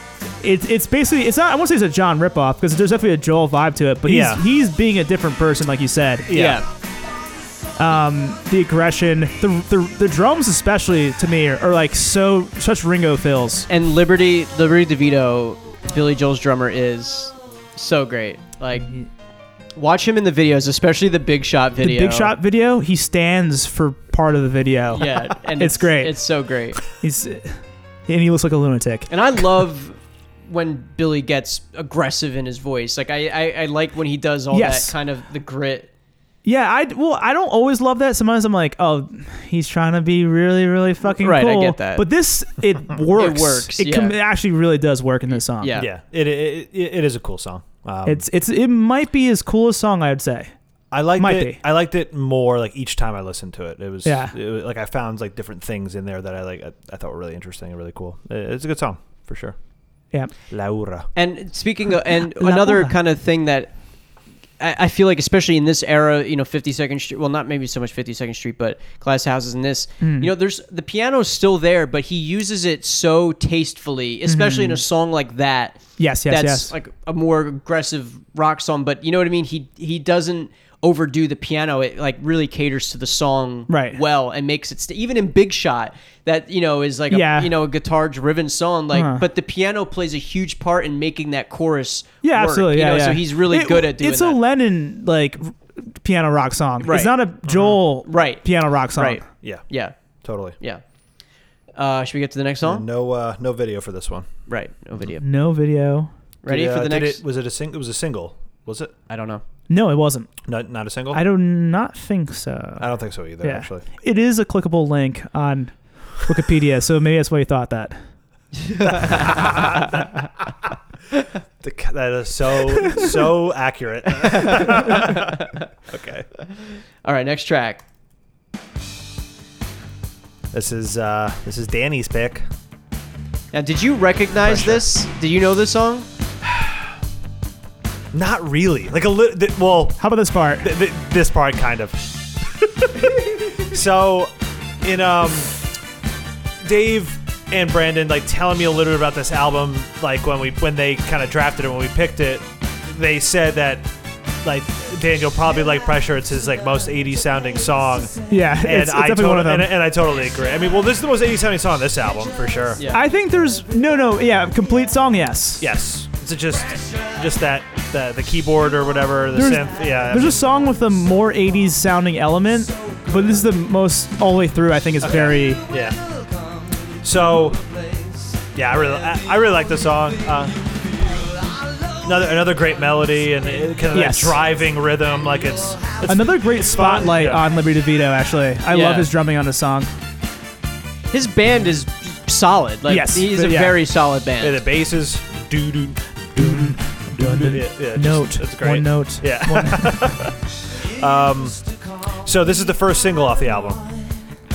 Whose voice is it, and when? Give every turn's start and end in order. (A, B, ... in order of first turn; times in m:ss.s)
0:00.4-0:06.3 A
0:04.0-0:04.4 B
0:06.3-0:06.6 B
0:06.3-0:06.6 C
0:07.8-0:13.7 A
0:13.7-0:18.9 C
0:19.8-0:22.3 C
0:21.8-0:26.2 A
0:24.9-0:26.8 C
0:26.9-0:29.1 A
0:29.1-0:35.9 C
0:34.5-0:34.9 A
0:36.4-0:45.8 A
0:41.1-0:42.1 C
0:43.2-0:44.2 C
0:45.6-0:45.9 C
0:45.8-0:48.2 B
0:48.0-0:50.5 A
0:50.9-0:59.6 B
0:51.2-0:51.6 A
0:54.0-0:54.4 A
1:00.5-1:01.1 B
1:01.2-1:03.7 C
1:02.4-1:03.0 A
1:04.6-1:34.4 C
1:10.0-1:10.3 A
1:14.3-1:14.8 A
1:16.0-1:16.7 A
1:23.7-1:24.0 A
1:27.1-1:27.5 A
1:28.9-1:29.3 A
1:32.2-1:39.2 A
1:36.8-1:37.2 C
1:37.5-1:37.8 B
1:38.1-1:40.0 C
1:40.2-1:40.6 B
1:41.8-1:42.8 C
1:42.6-1:44.3 B
1:44.5-1:45.2 C
1:45.2-1:46.1 A
1:46.4-1:47.2 C
1:46.5-1:48.9 B
1:49.1-1:49.4 C
1:49.7-1:50.3 A
1:50.4-1:51.2 B
1:51.1-1:52.9 A
1:52.8-1:53.9 B
1:53.4-1:58.0 A
1:58.7-1:59.9 C
1:58.8-2:00.1 B
2:01.6-2:06.3 B
2:04.2-2:05.6 C
2:07.0-2:07.8 C
2:10.5-2:12.5 B
2:13.5-2:16.1 C
2:14.4-2:14.8 B
2:16.4-2:16.9 B
2:18.1-2:20.0 B
2:20.0-2:20.7 A
2:20.6-2:25.5 B
2:26.6-2:33.9 B
2:34.4-2:42.8 B
2:38.3-2:39.7 A
2:42.9-2:45.6 A
2:45.6-2:50.4 B
2:49.3-2:55.6 A
2:55.0-2:56.0 B
2:57.0-2:57.6 B
2:58.5-3:00.6 B
3:02.0-3:07.4 B
3:03.9-3:04.4 A
3:06.1-3:09.9 A
3:08.7-3:09.1 C
3:11.1-3:14.6 C
3:12.9-3:13.8 A
3:14.4-3:21.6 B
3:16.4-3:20.2 A
3:22.2-3:23.8 B